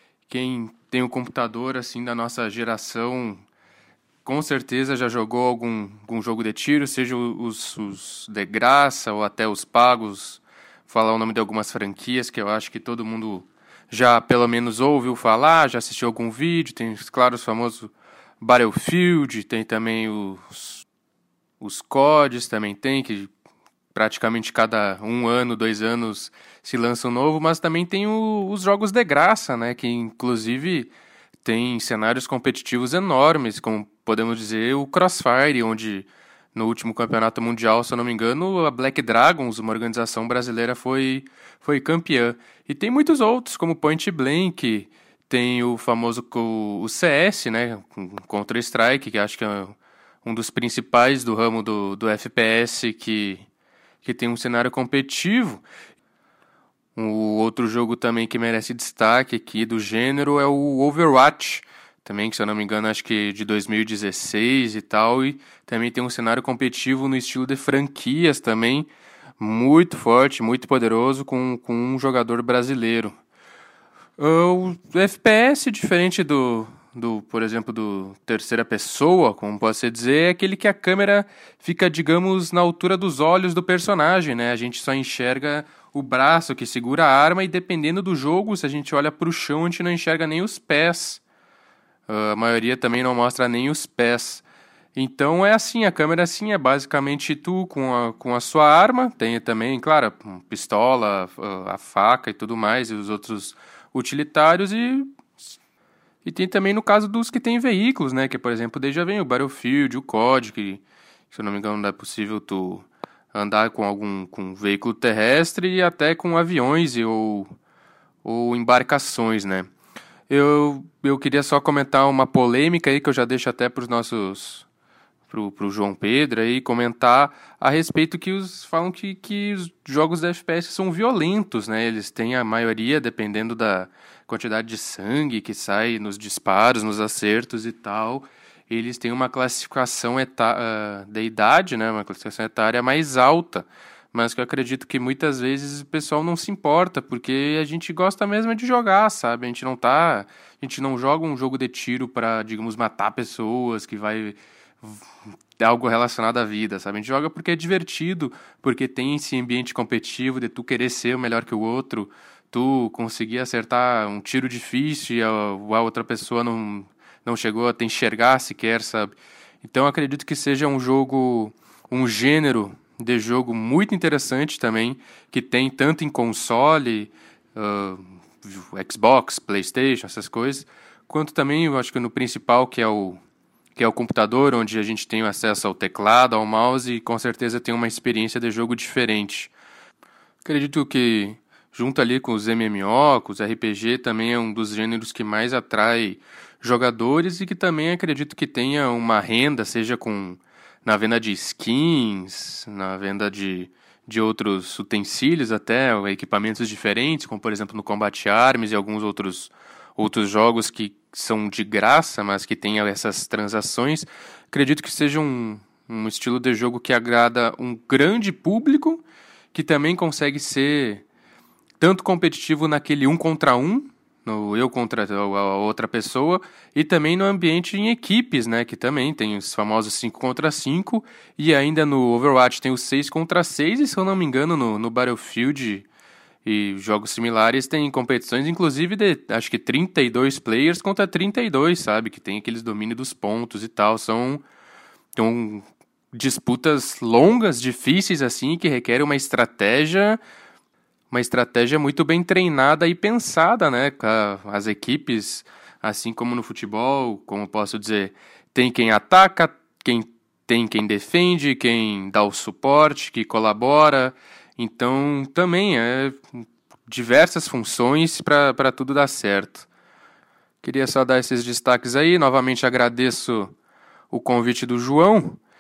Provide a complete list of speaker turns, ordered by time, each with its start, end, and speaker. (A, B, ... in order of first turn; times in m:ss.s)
0:00.3-0:03.4 A
0:04.2-0:20.8 A
0:21.6-0:23.3 A
0:23.9-0:30.9 A
0:31.4-0:53.4 A
0:54.0-0:55.6 A
0:57.0-1:13.2 A
1:14.2-1:31.2 A
1:32.1-1:34.4 A
1:35.0-1:45.4 A
1:46.2-1:57.5 A
1:58.2-1:59.7 A
2:00.3-2:04.7 A
2:05.3-2:35.0 A
2:35.6-3:03.2 A
3:03.8-3:09.5 A
3:10.4-3:39.0 A
3:39.5-3:41.0 A
3:41.8-3:55.9 A
3:56.4-4:04.4 A
4:05.2-4:10.2 A
4:11.1-4:29.7 A
4:30.6-4:33.5 A
4:34.1-4:35.4 A